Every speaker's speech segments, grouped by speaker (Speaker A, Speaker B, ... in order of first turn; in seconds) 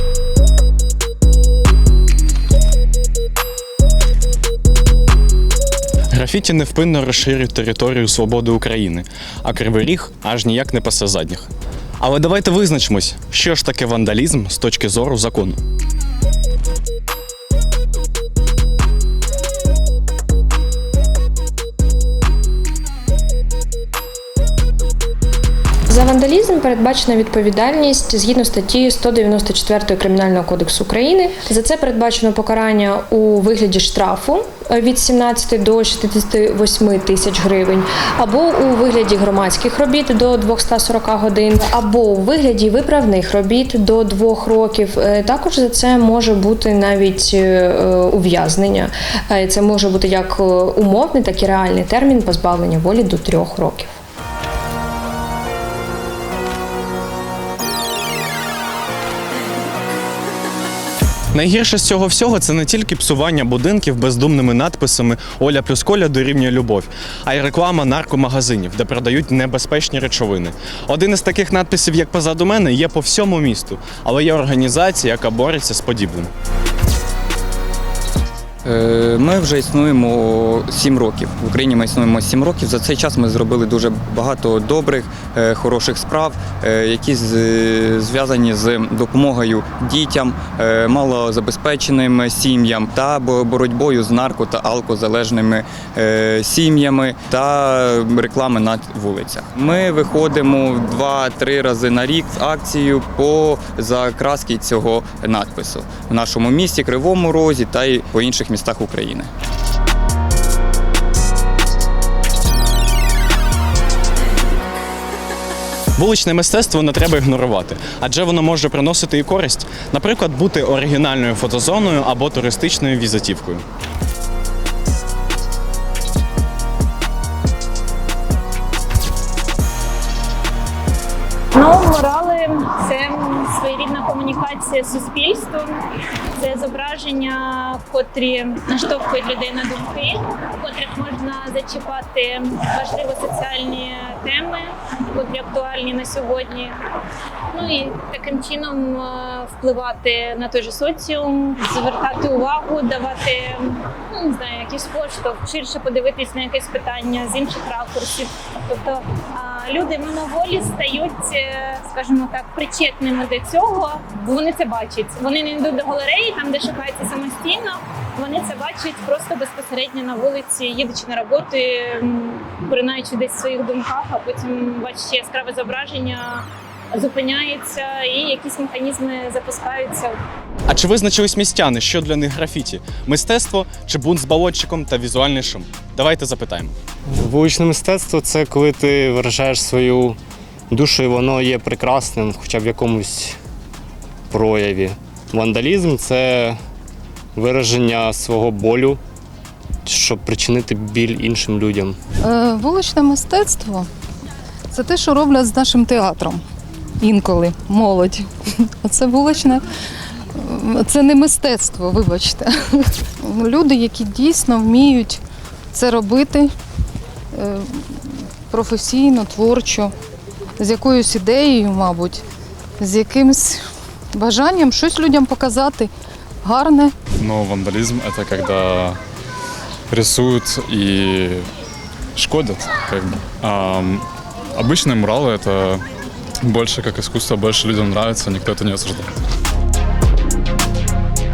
Speaker A: 6.1-11.5, 12.0-15.6, 61.3-76.3, 116.0-123.6, 180.7-186.7
Speaker B: 25.9-54.0
Speaker C: 78.7-109.3
Speaker D: 131.6-135.8, 136.4-146.8, 147.5-180.2
Speaker E: 187.1-190.2, 190.7-193.4, 194.3-196.6, 197.3-199.0, 199.8-202.0
Speaker F: 202.2-203.9, 204.7-206.4, 207.0-209.6, 210.4-215.2, 215.7-216.5, 217.3-219.9, 220.6-222.2, 222.8-223.6, 224.1-225.9, 226.4-226.9
Speaker G: 227.2-229.0, 229.9-231.5, 232.2-234.1, 234.6-235.8, 236.4-239.2